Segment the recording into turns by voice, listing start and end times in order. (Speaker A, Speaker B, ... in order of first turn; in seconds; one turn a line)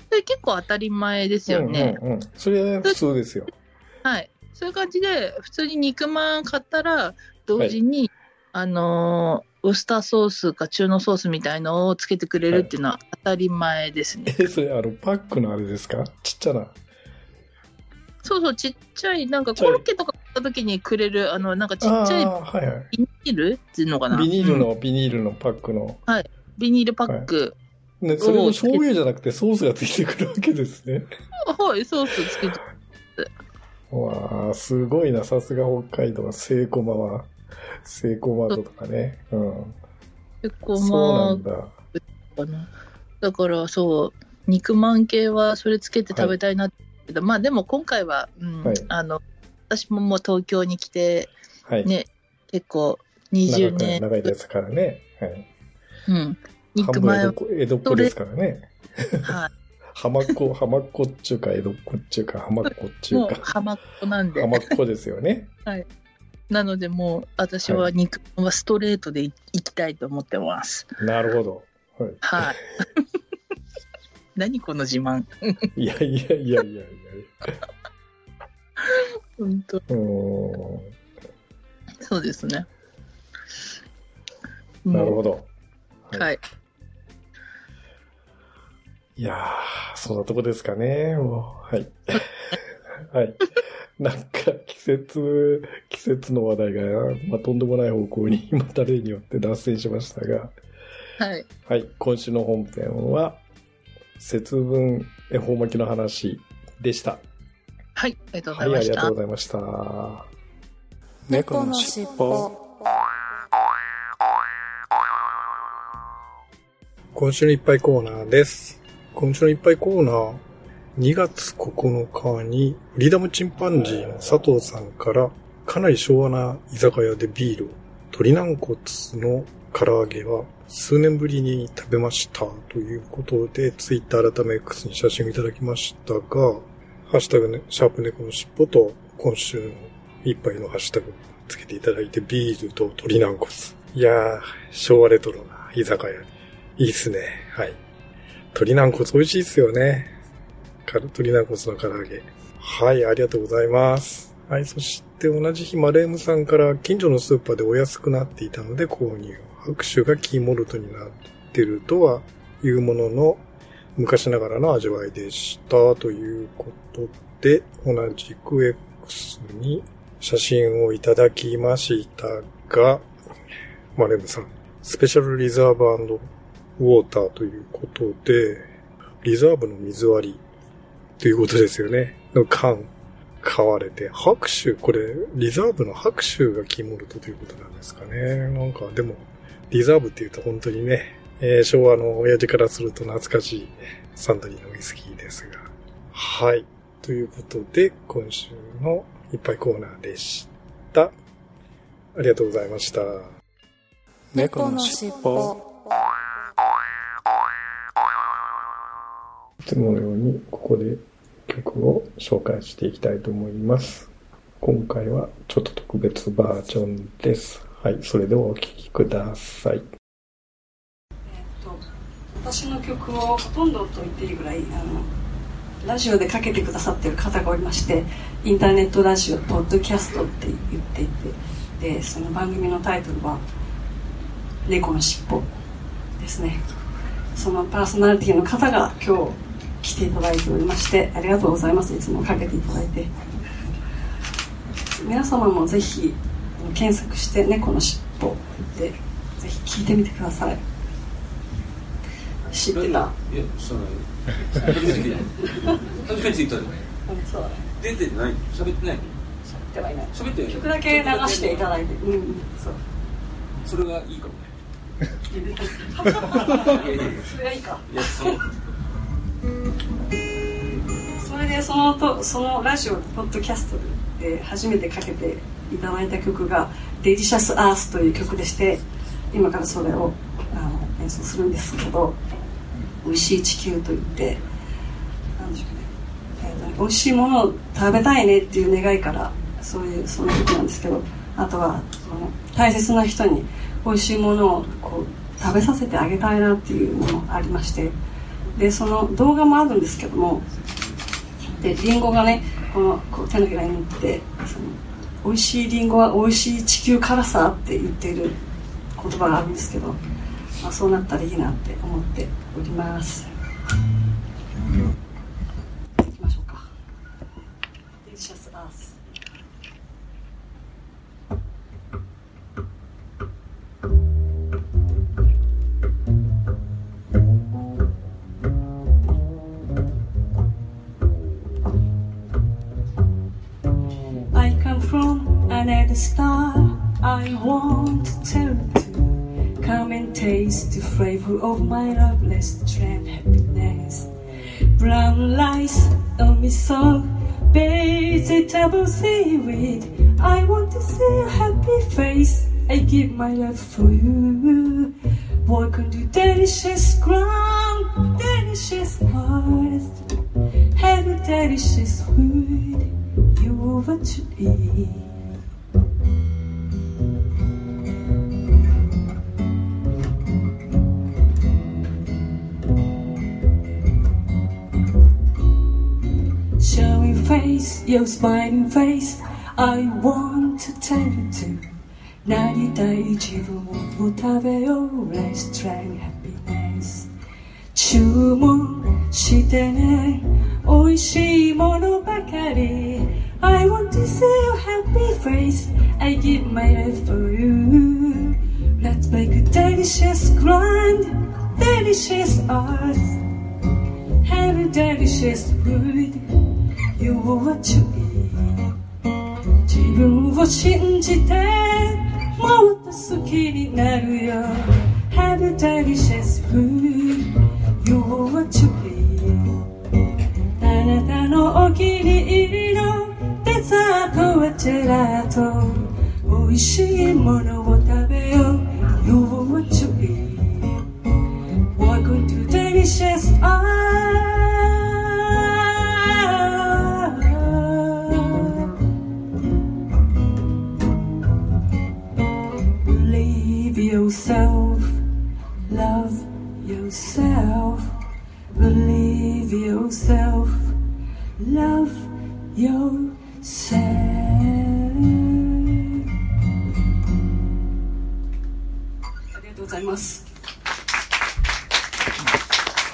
Speaker A: 0.1-2.0
Speaker B: 1.5-3.5
Speaker A: 4.0-14.5
Speaker B: 14.3-16.8
Speaker A: 18.2-22.3
Speaker B: 19.6-19.8
Speaker B: 21.8-22.9
Speaker A: 22.9-24.7
Speaker B: 24.1-26.0
Speaker A: 26.1-27.6
Speaker B: 28.0-31.1
Speaker A: 28.2-28.8
Speaker A: 31.5-32.6
Speaker B: 33.9-37.3
Speaker B: 37.8-39.8
Speaker A: 40.4-41.4
Speaker B: 40.8-41.8
Speaker A: 42.0-42.7
Speaker A: 43.2-51.3
Speaker B: 46.1-46.4
Speaker B: 48.6-48.9
Speaker B: 51.6-51.9
Speaker A: 51.8-54.3
Speaker B: 53.5-55.5
Speaker A: 56.1-58.1
Speaker B: 56.8-59.4
Speaker A: 59.2-59.5
Speaker B: 60.0-63.5
Speaker A: 63.1-64.8
Speaker B: 64.3-65.5
Speaker A: 66.5-70.9
Speaker B: 71.0-72.5
Speaker A: 72.2-72.8
Speaker A: 74.4-75.6
Speaker B: 75.8-77.3
Speaker A: 78.8-79.8
Speaker B: 79.9-80.9
Speaker A: 82.0-82.7
Speaker A: 84.8-85.2
Speaker B: 84.9-85.5
Speaker A: 86.2-86.4
Speaker B: 89.2-92.2
Speaker B: 93.0-100.5
Speaker A: 101.2-101.5
Speaker B: 101.7-103.4
Speaker B: 104.2-107.2
Speaker A: 108.0-109.1
Speaker B: 108.5-110.3
Speaker C: 111.3-112.5
Speaker B: 117.1-120.4
Speaker B: 121.0-147.8
Speaker B: 148.5-150.1
Speaker B: 150.9-163.4
Speaker B: 164.0-173.1
Speaker B: 174.0-178.7
Speaker B: 179.2-180.4
Speaker B: 181.2-182.9
Speaker B: 183.4-201.2
Speaker B: 202.1-203.3
Speaker C: 204.3-205.6
Speaker B: 209.6-219.9
Speaker D: 221.3-221.8
Speaker D: 222.4-225.1
Speaker D: 225.8-233.4
Speaker D: 234.7-235.5
Speaker D: 236.2-236.6
Speaker D: 237.3-243.1
Speaker D: 245.0-250.6
Speaker D: 252.5-253.2
Speaker E: 252.7-256.8
Speaker D: 254.7-256.0
Speaker D: 257.1-257.7
Speaker E: 257.8-259.1
Speaker D: 259.6-262.8
Speaker E: 260.1-261.7
Speaker E: 263.6-264.5
Speaker D: 265.3-268.4
Speaker E: 266.0-267.3
Speaker E: 267.9-268.5
Speaker D: 271.2-282.2
Speaker D: 283.0-284.4
Speaker D: 285.4-297.9
Speaker D: 298.6-300.4
Speaker D: 301.6-308.4
Speaker D: 309.0-310.0
Speaker D: 310.6-313.3
Speaker D: 316.0-316.7
Speaker D: 318.0-319.0
Speaker D: 334.3-344.1
Speaker D: 344.8-354.9
Speaker D: 355.4-360.0
Speaker D: 360.8-365.2
Speaker D: 376.6-381.6
Speaker D: 382.2-387.1
Speaker D: 387.7-403.2
Speaker D: 404.2-406.2
Speaker D: 407.0-408.7
Speaker D: 409.7-419.6
Speaker D: 420.6-430.9
Speaker D: 431.8-438.8
Speaker D: 442.8-445.0
Speaker D: 445.7-447.9
Speaker D: 448.6-450.8
Speaker D: 451.4-455.3
Speaker D: 459.3-460.3